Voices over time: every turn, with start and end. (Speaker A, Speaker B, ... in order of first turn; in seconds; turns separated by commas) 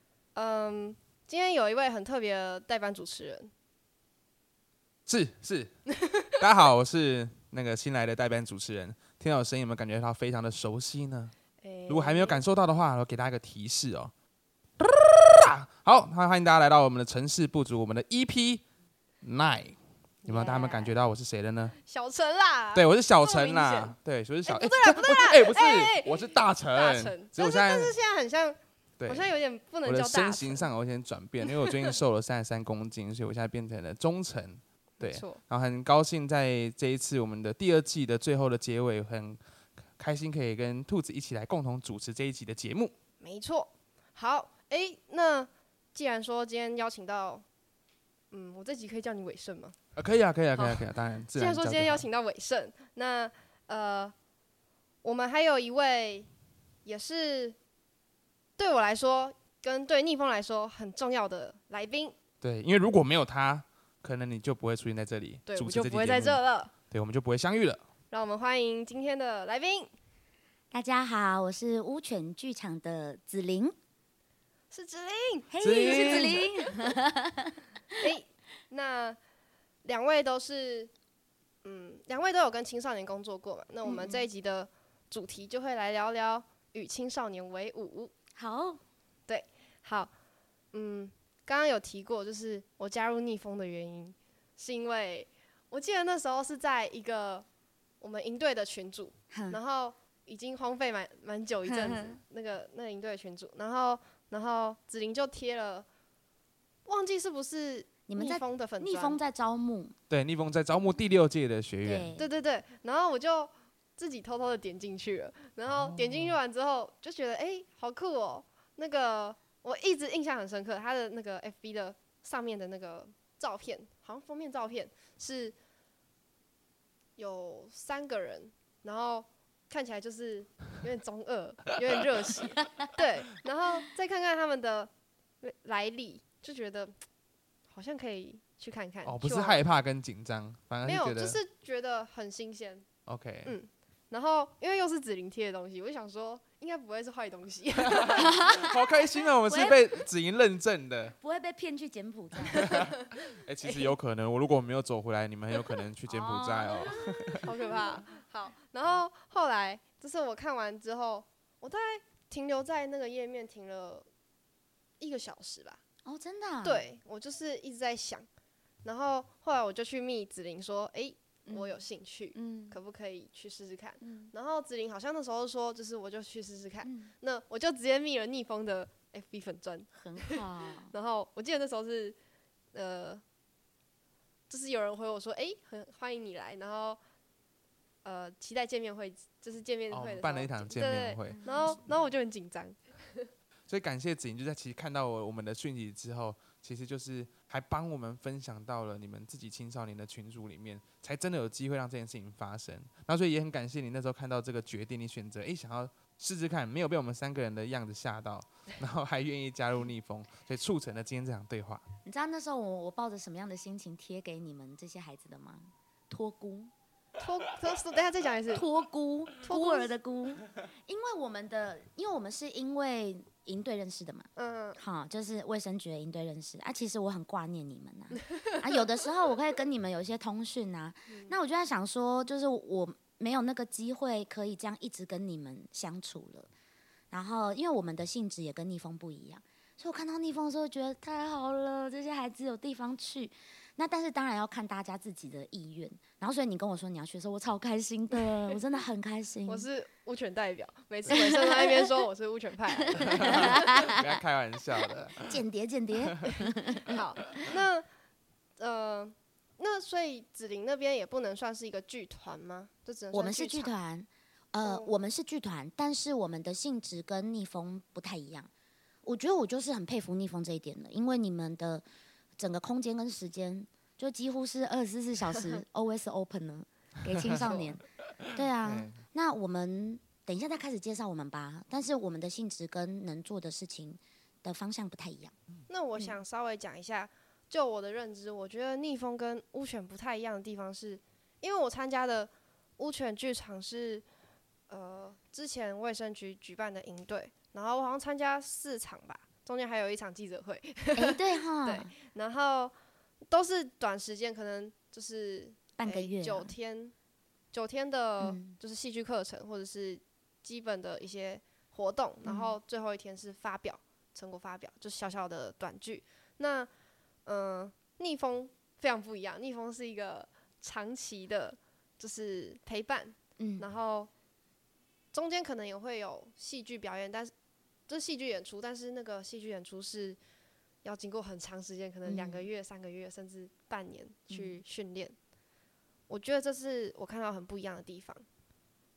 Speaker A: 0.3-3.5, Speaker B: 5.0-11.3, Speaker A: 11.6-12.4, Speaker B: 11.9-14.1, Speaker B: 14.8-18.6, Speaker B: 19.2-21.8, Speaker A: 20.2-20.9, Speaker A: 21.8-30.7, Speaker B: 22.7-27.9, Speaker B: 29.0-29.3, Speaker B: 29.8-43.0, Speaker A: 35.0-35.4, Speaker A: 43.2-47.4, Speaker A: 48.3-49.8, Speaker B: 49.9-52.0, Speaker A: 50.5-54.1, Speaker A: 55.0-56.3, Speaker A: 56.8-57.5, Speaker A: 58.6-62.1, Speaker B: 62.4-67.8, Speaker A: 65.5-66.7, Speaker A: 68.1-69.9, Speaker C: 70.7-73.8, Speaker A: 74.7-76.7, Speaker C: 75.5-78.0, Speaker B: 75.6-76.5, Speaker A: 78.0-79.2, Speaker A: 79.8-80.9, Speaker A: 81.6-88.1, Speaker C: 83.8-84.3, Speaker C: 88.3-88.8, Speaker A: 89.3-90.1, Speaker A: 90.7-97.5, Speaker A: 98.0-105.9, Speaker C: 99.3-99.6, Speaker C: 101.7-102.2, Speaker A: 106.8-109.2, Speaker C: 108.1-110.0, Speaker B: 110.1-112.1, Speaker C: 111.8-112.3, Speaker A: 112.2-125.5, Speaker B: 115.7-116.4, Speaker A: 127.2-136.9, Speaker A: 137.7-139.6, Speaker B: 139.0-141.4, Speaker A: 140.8-142.9, Speaker B: 143.1-143.6, Speaker A: 143.4-148.8, Speaker B: 148.0-151.2, Speaker C: 148.2-148.5, Speaker C: 149.5-149.8, Speaker C: 151.2-152.7, Speaker A: 152.5-152.9, Speaker B: 152.6-157.5, Speaker A: 153.6-153.9, Speaker C: 156.1-157.5, Speaker A: 157.4-164.1, Speaker A: 165.0-165.8, Speaker C: 166.0-166.8, Speaker A: 166.6-168.3, Speaker A: 168.8-182.2, Speaker C: 171.4-171.8, Speaker C: 172.3-172.8, Speaker C: 174.0-174.3, Speaker C: 176.8-177.1, Speaker C: 179.9-180.9, Speaker A: 182.7-183.2, Speaker A: 184.5-187.0, Speaker A: 188.0-193.3, Speaker B: 189.9-191.8, Speaker C: 191.3-191.8, Speaker B: 193.7-211.8, Speaker C: 212.0-216.7, Speaker A: 217.2-218.7, Speaker C: 218.5-236.5, Speaker A: 219.4-219.9, Speaker A: 224.3-224.8, Speaker A: 231.1-231.3, Speaker C: 237.1-249.7, Speaker A: 248.2-248.6, Speaker A: 249.5-253.9, Speaker C: 251.1-251.8, Speaker C: 252.9-253.7, Speaker B: 253.0-255.3, Speaker C: 255.2-257.3, Speaker A: 256.9-257.9, Speaker A: 258.6-263.7, Speaker C: 263.1-268.5, Speaker A: 264.6-264.9, Speaker C: 269.0-271.8, Speaker C: 272.4-277.8, Speaker A: 277.4-277.8, Speaker B: 278.2-279.0, Speaker C: 278.3-285.3, Speaker A: 285.7-294.0, Speaker A: 294.7-302.7, Speaker C: 301.0-301.9, Speaker A: 303.3-306.9, Speaker C: 305.8-306.5, Speaker A: 307.5-316.7, Speaker C: 308.2-308.6, Speaker C: 312.2-312.6, Speaker A: 317.2-324.1, Speaker C: 323.4-323.6, Speaker A: 325.1-327.3, Speaker A: 327.9-330.2, Speaker A: 330.8-335.1, Speaker C: 332.0-332.5, Speaker C: 334.3-334.6, Speaker A: 336.1-338.2